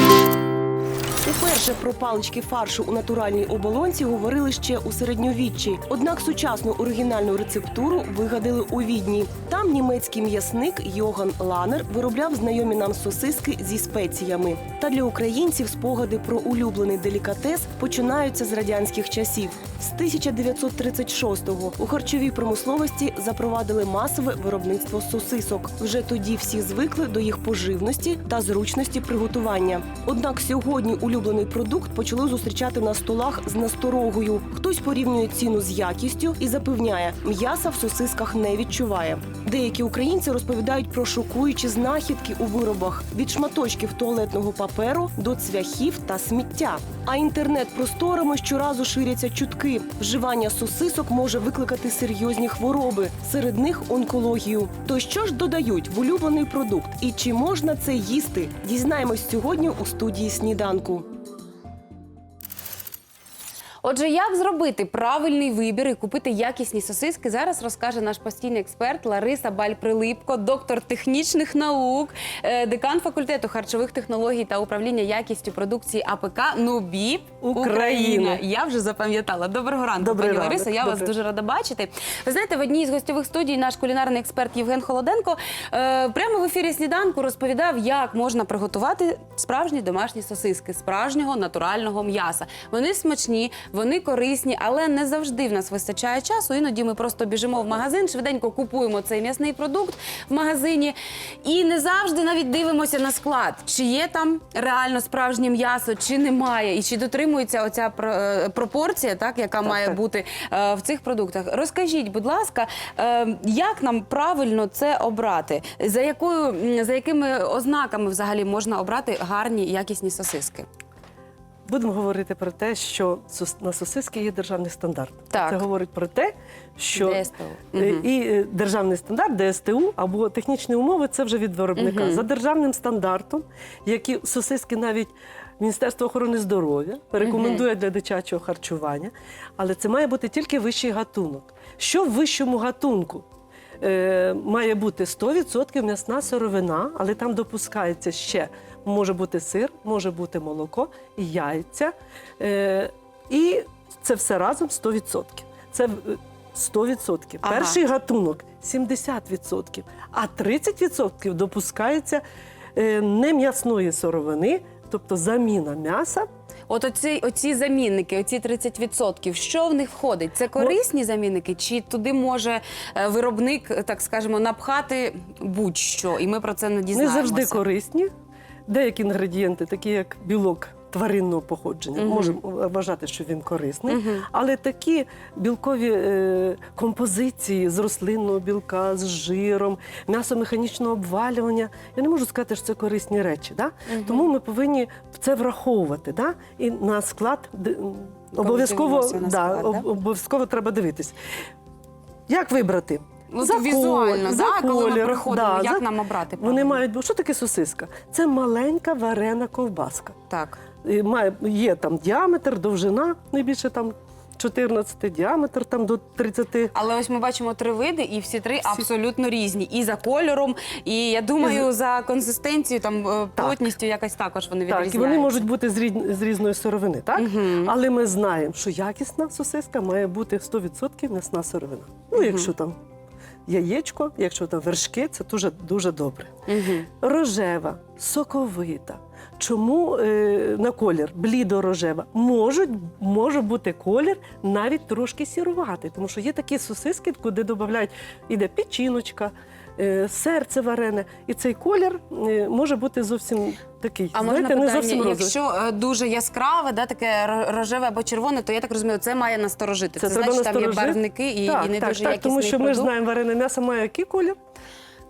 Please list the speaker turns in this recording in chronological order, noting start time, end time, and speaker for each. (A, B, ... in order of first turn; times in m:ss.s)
0:01.2-1:01.0 A
1:03.8-2:00.7 B
1:17.4-1:18.4 C
1:20.0-1:21.1 C
1:49.6-1:50.0 C
2:01.7-2:23.2 C
2:05.3-2:05.7 B
2:07.0-2:08.0 B
2:11.8-2:12.2 B
2:17.2-2:17.6 B
2:23.8-2:42.2 C
2:37.4-2:37.8 B
2:42.8-2:46.2 C
2:46.7-2:57.6 B
2:56.9-2:58.1 C
2:58.7-3:21.2 C
3:02.0-3:02.4 B
3:03.9-3:04.2 B
3:13.9-3:14.3 B
3:18.4-3:19.9 B
3:22.3-3:25.8 C
3:23.3-3:26.8 B
3:26.4-3:30.2 C
3:30.3-3:30.6 B
3:30.8-3:36.7 C
3:36.7-3:45.4 B
3:41.4-3:41.7 C
3:44.7-3:52.8 C
3:47.2-3:47.7 B
3:52.1-3:52.5 B
3:53.5-3:56.3 C
3:56.5-3:56.9 B
3:57.0-4:15.3 C
4:14.1-4:22.9 B
4:20.0-4:24.4 C